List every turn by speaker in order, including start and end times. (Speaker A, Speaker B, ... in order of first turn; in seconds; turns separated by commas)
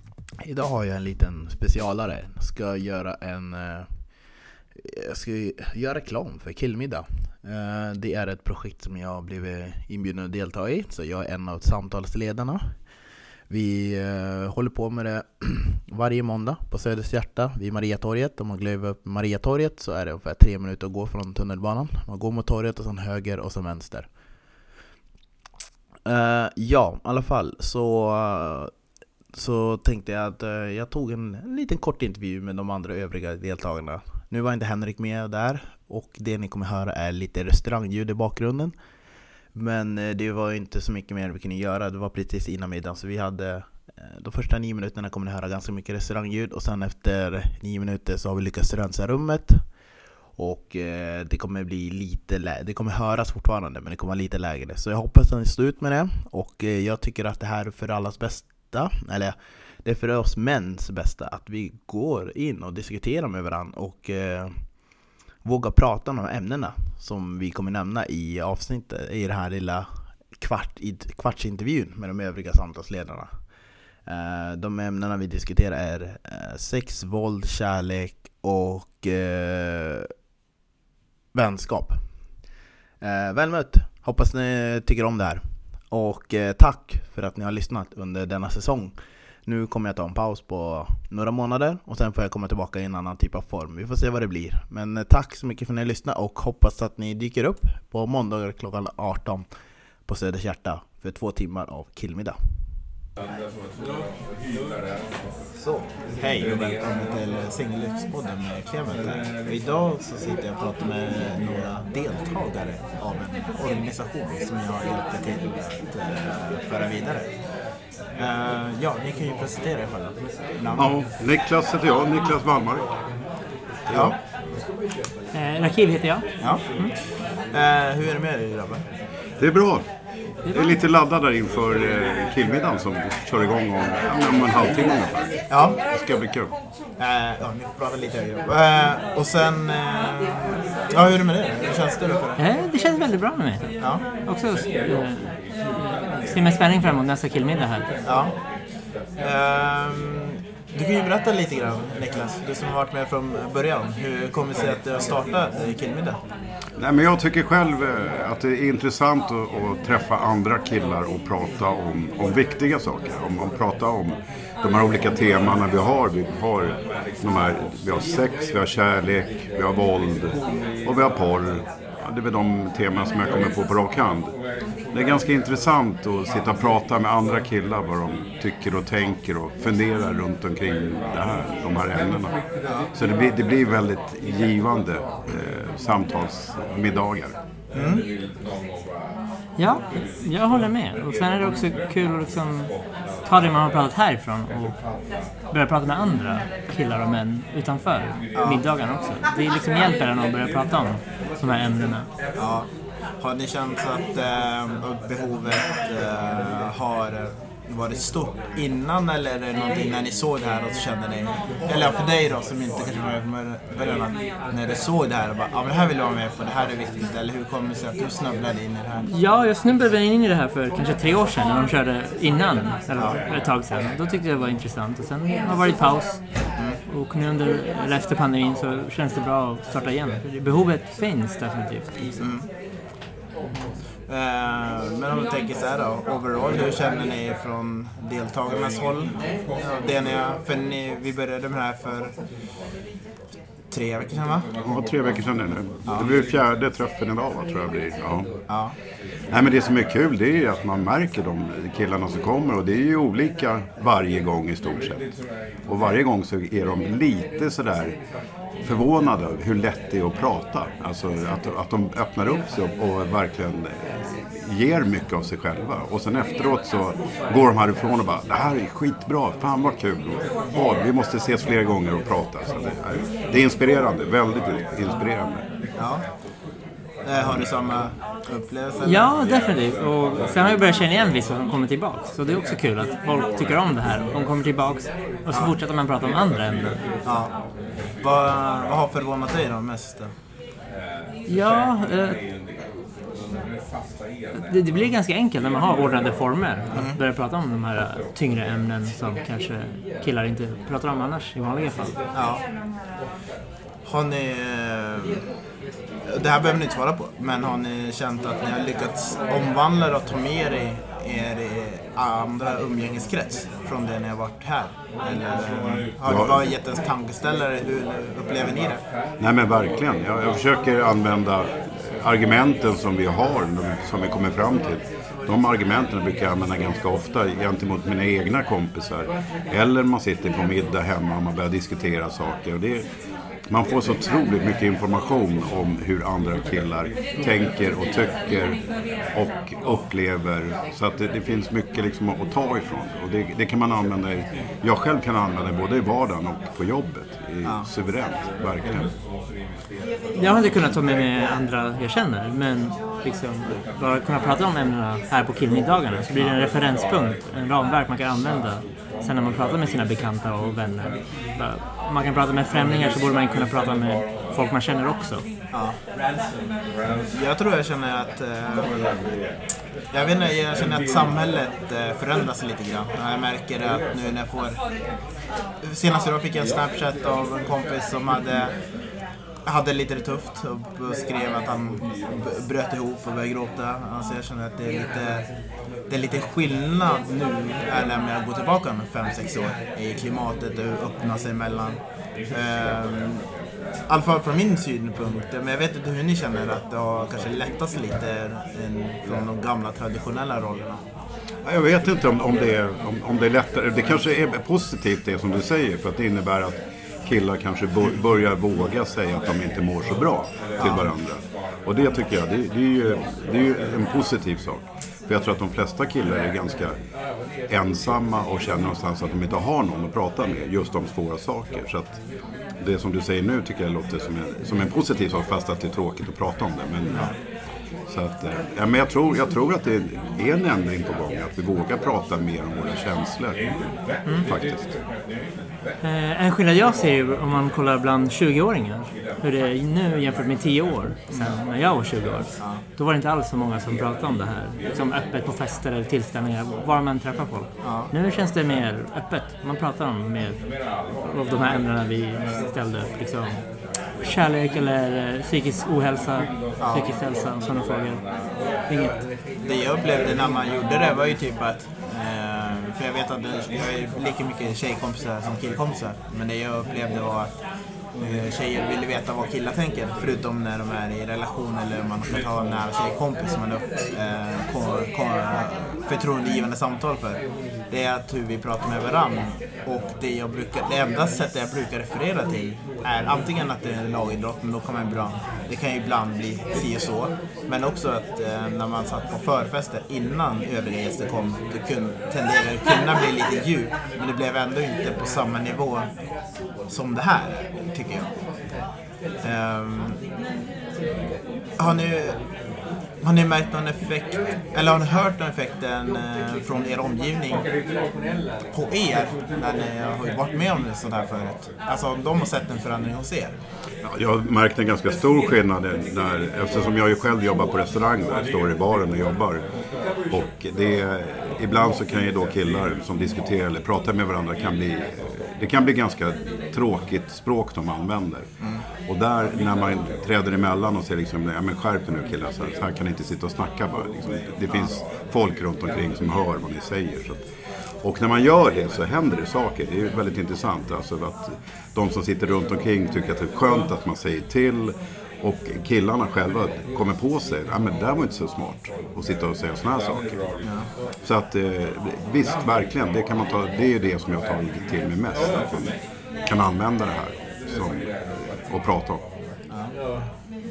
Speaker A: 0.4-3.9, Speaker A: 4.8-12.8, Speaker A: 13.5-24.1, Speaker A: 26.1-28.7, Speaker A: 29.3-38.7, Speaker A: 39.5-49.7, Speaker A: 50.3-64.7, Speaker A: 65.4-73.3, Speaker A: 74.1-80.1, Speaker A: 81.3-82.0, Speaker A: 83.0-99.5, Speaker A: 100.1-102.4, Speaker A: 105.6-117.3, Speaker A: 118.2-120.9, Speaker B: 120.8-122.9, Speaker B: 123.9-124.2, Speaker A: 123.9-124.2, Speaker C: 125.3-126.9, Speaker A: 126.4-126.9, Speaker A: 127.5-128.8, Speaker B: 129.4-129.9, Speaker B: 130.5-136.5, Speaker A: 135.5-135.8, Speaker A: 137.0-142.4, Speaker C: 142.4-147.9, Speaker A: 143.8-144.1, Speaker A: 148.1-148.3, Speaker A: 149.2-156.2, Speaker B: 156.8-174.3, Speaker B: 174.9-182.4, Speaker B: 182.9-187.3, Speaker A: 187.7-188.1, Speaker C: 189.6-192.7, Speaker C: 193.2-194.8, Speaker C: 195.5-202.1, Speaker A: 198.3-198.7, Speaker A: 202.4-202.7, Speaker A: 203.2-219.1, Speaker C: 219.0-232.3, Speaker A: 223.0-223.2, Speaker A: 232.2-232.5, Speaker A: 234.1-242.1, Speaker A: 243.7-244.5, Speaker B: 244.6-248.3, Speaker A: 245.9-246.1, Speaker A: 248.5-248.7, Speaker B: 249.3-255.1, Speaker B: 255.7-258.0, Speaker B: 258.6-275.4, Speaker A: 275.8-276.0, Speaker A: 277.0-279.2, Speaker C: 278.8-286.8, Speaker A: 285.3-285.5, Speaker A: 287.0-287.3, Speaker A: 288.0-290.1, Speaker C: 291.3-292.2, Speaker C: 294.3-301.9, Speaker A: 296.7-297.0, Speaker A: 302.1-302.4, Speaker A: 303.8-305.3, Speaker A: 306.1-318.8, Speaker B: 316.0-316.4, Speaker B: 319.2-332.9, Speaker B: 333.5-338.6, Speaker B: 339.1-348.9, Speaker A: 347.4-347.7, Speaker C: 350.1-365.2, Speaker A: 356.1-356.4, Speaker A: 365.5-365.8, Speaker A: 367.1-368.7, Speaker A: 369.9-374.6, Speaker A: 375.6-378.5, Speaker A: 379.4-385.3, Speaker A: 385.9-391.8, Speaker A: 392.3-393.2, Speaker A: 393.9-400.8, Speaker B: 401.4-416.8, Speaker A: 410.6-410.9, Speaker B: 417.5-422.0, Speaker B: 422.6-427.1, Speaker A: 426.9-427.1, Speaker B: 427.9-433.4, Speaker B: 434.2-434.8, Speaker C: 435.8-450.4, Speaker A: 442.4-442.6, Speaker A: 447.6-447.9, Speaker C: 451.0-453.4, Speaker C: 454.0-458.0, Speaker A: 456.6-456.9, Speaker C: 458.7-459.0, Speaker A: 459.4-467.3, Speaker A: 468.0-495.9, Speaker A: 496.7-498.1, Speaker A: 499.2-500.0, Speaker A: 501.6-502.2, Speaker A: 503.0-507.4, Speaker A: 508.5-513.3, Speaker B: 513.8-519.4, Speaker B: 520.1-528.3, Speaker A: 528.4-528.6, Speaker B: 528.9-537.2, Speaker A: 534.5-534.8, Speaker B: 537.8-550.2, Speaker A: 550.4-550.7, Speaker B: 551.0-555.7, Speaker B: 556.2-557.9, Speaker B: 558.4-559.0